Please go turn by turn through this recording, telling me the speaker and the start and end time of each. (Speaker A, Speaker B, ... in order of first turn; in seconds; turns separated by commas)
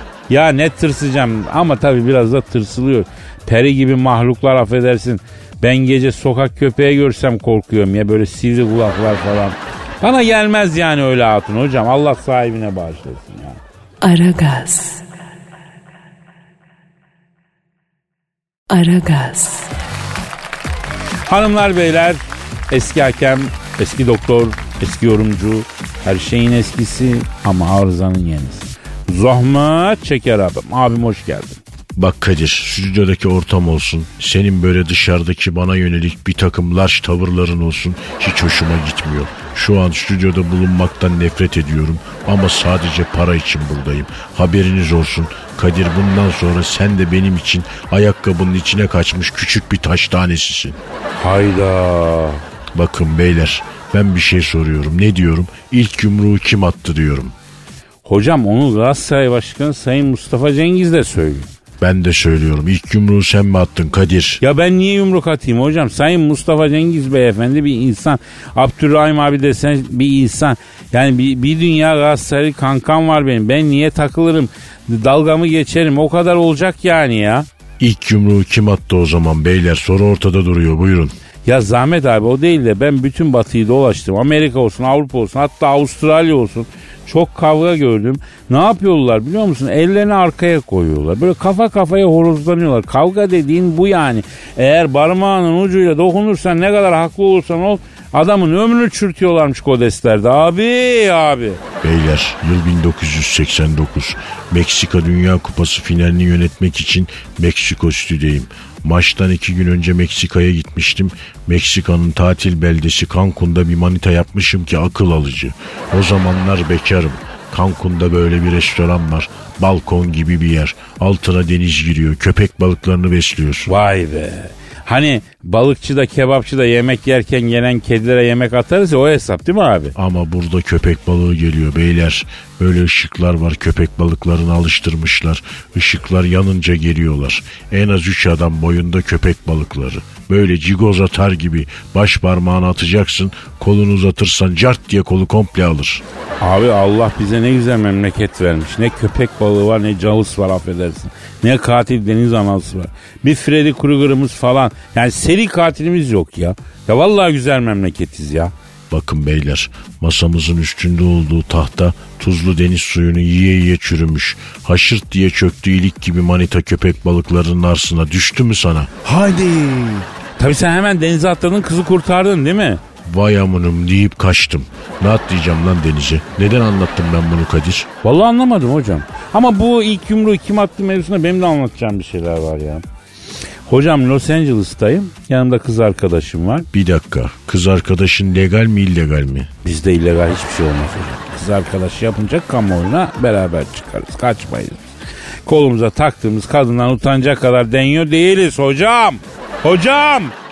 Speaker A: 0.3-13.6, Speaker B: 14.0-15.0, Speaker B: 18.7-19.7, Speaker A: 21.3-31.6, Speaker C: 32.0-50.8, Speaker A: 51.2-52.4, Speaker C: 52.8-57.3, Speaker A: 58.0-61.5, Speaker C: 61.8-64.4, Speaker A: 64.4-77.5, Speaker C: 77.8-81.2, Speaker A: 81.5-101.6, Speaker C: 101.8-123.7, Speaker A: 123.7-129.9, Speaker C: 129.9-146.0, Speaker A: 146.4-158.5, Speaker C: 158.9-168.9, Speaker A: 169.1-172.8, Speaker C: 173.1-177.9, Speaker A: 178.0-182.8, Speaker A: 183.7-186.7, Speaker C: 186.7-189.5, Speaker A: 189.6-194.8, Speaker A: 195.4-200.3